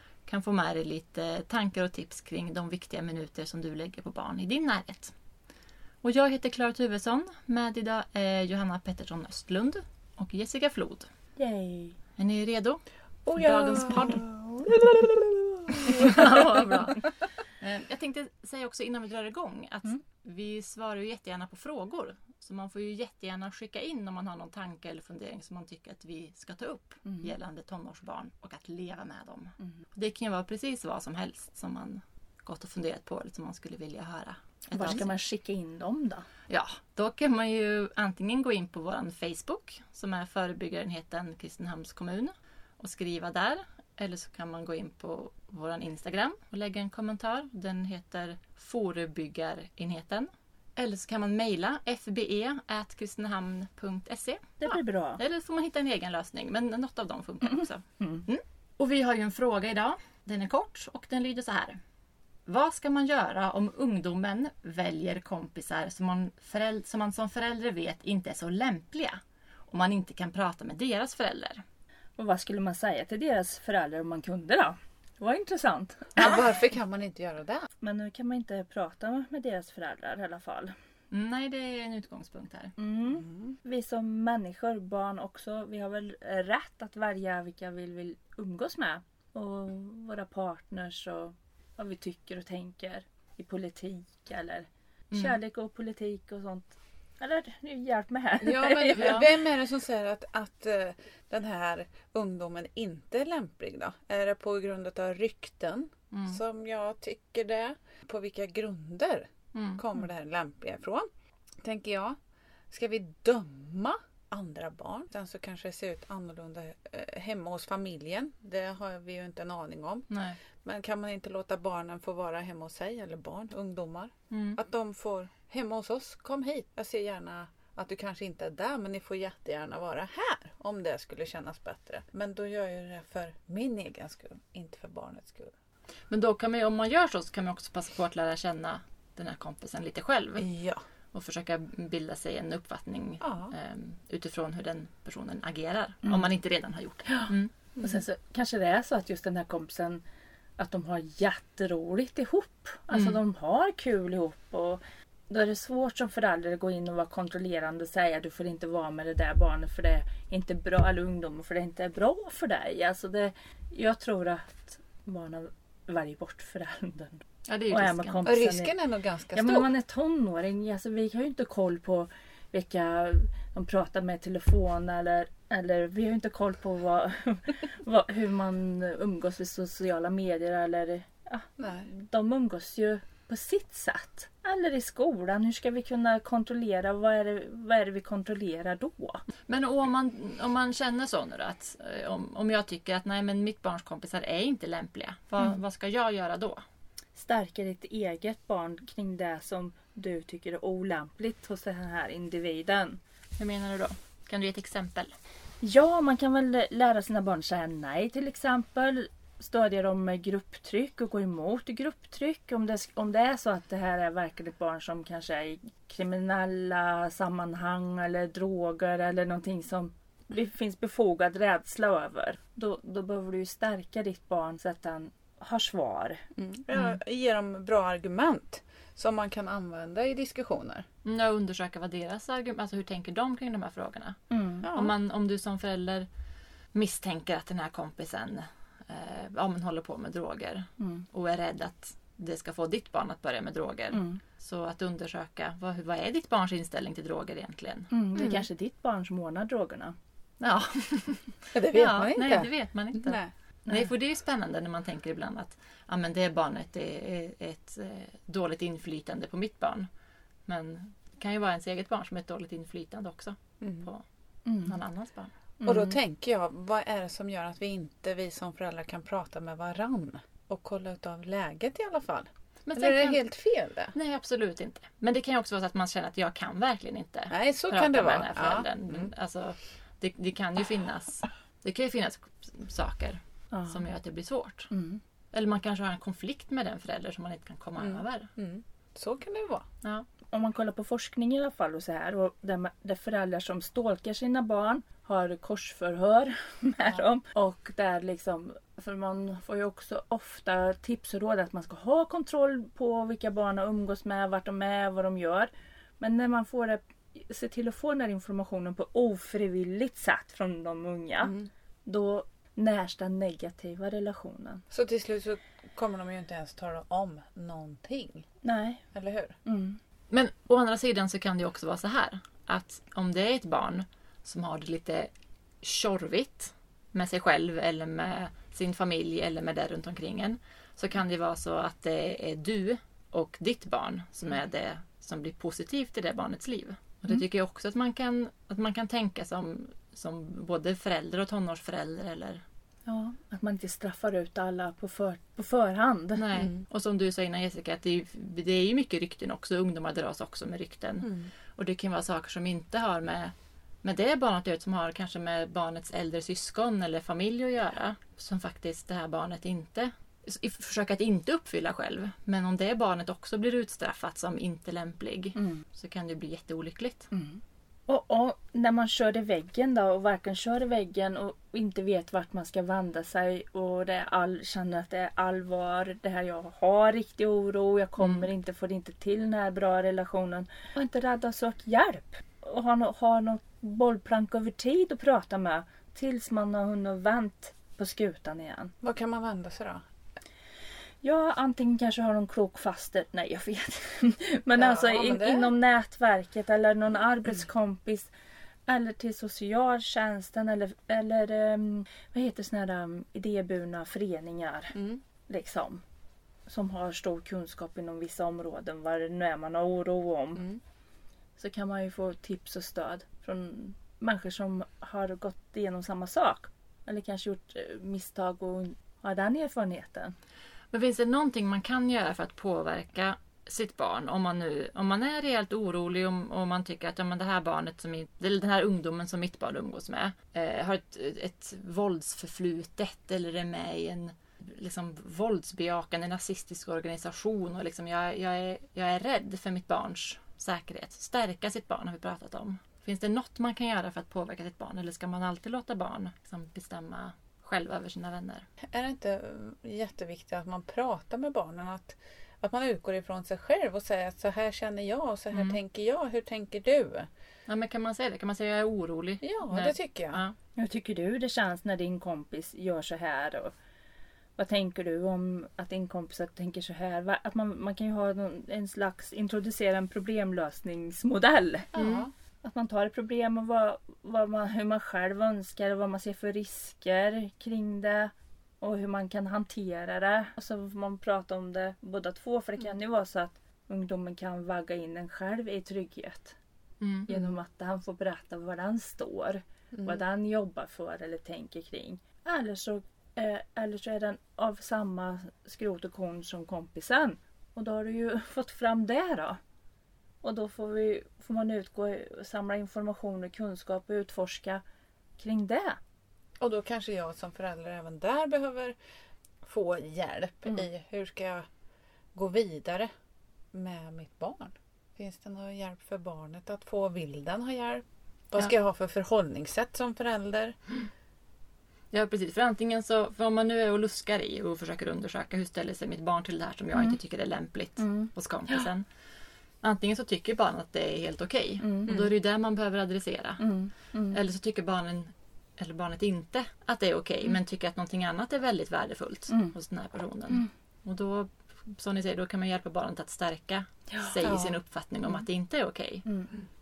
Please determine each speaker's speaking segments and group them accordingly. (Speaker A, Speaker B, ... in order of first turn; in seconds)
Speaker A: 0.3-5.1, 6.0-11.1, 12.2-12.8, 13.3-14.2, 15.9-17.1, 17.6-35.1, 36.5-61.8, 62.5-71.6, 81.1-82.7, 95.1-95.4, 98.9-99.3, 106.1-106.4, 109.5-109.8, 120.1-120.4, 124.3-124.6, 136.1-140.5, 141.1-147.5, 152.9-153.2, 167.5-168.3, 189.5-196.6, 203.4-205.1, 226.7-227.0, 231.1-234.2, 234.7-236.1, 236.7-247.9, 250.4-259.9, 260.5-264.0, 264.6-265.3, 272.7-273.2, 273.9-284.7, 285.3-288.3, 320.1-325.1, 325.6-342.4, 346.2-353.3, 353.8-367.1, 378.0-378.3, 420.7-448.5, 455.3-455.6, 457.5-460.4, 471.8-472.1, 486.8-487.1, 521.9-528.9, 529.6-533.4, 534.1-546.0
Speaker B: 11.4-12.0, 27.1-27.3, 34.7-36.3, 54.6-55.2, 72.2-76.4, 77.8-80.7, 82.8-99.3, 147.1-150.0, 150.6-168.7, 169.3-189.2, 197.2-203.0, 205.6-226.3, 234.3-234.7, 240.8-241.1, 243.9-244.2, 247.9-249.9, 264.5-264.8, 265.6-266.0, 283.5-283.8, 284.7-285.0, 290.3-311.3, 311.9-314.6, 318.4-318.8, 319.4-319.8, 342.9-346.2, 365.4-365.6, 367.1-388.7, 391.0-398.1, 398.7-404.8, 405.3-405.8, 406.5-410.4, 411.4-420.1, 460.6-463.5, 464.4-471.7, 472.4-486.4, 487.1-499.4, 500.2-504.6, 505.2-505.8, 527.8-528.7, 531.6-532.1, 533.4-534.2, 539.3-539.5, 546.0-546.5
Speaker C: 13.3-16.6, 76.2-77.7, 83.1-83.5, 98.4-111.1, 111.6-112.2, 112.7-120.1, 120.6-135.5, 140.4-140.8, 143.2-143.5, 147.8-148.0, 168.3-169.7, 181.6-181.9, 226.4-230.8, 234.6-234.9, 248.2-248.4, 251.5-253.3, 263.6-263.9, 265.6-273.9, 277.3-279.1, 287.8-289.7, 311.2-311.5, 314.7-318.3, 318.9-319.4, 351.0-351.3, 388.8-389.8, 394.6-395.5, 404.7-405.0, 448.7-457.1, 459.2-460.2, 471.7-472.1, 489.7-490.0, 506.4-508.8, 509.4-511.4, 512.1-512.9, 513.5-520.5, 544.2-544.6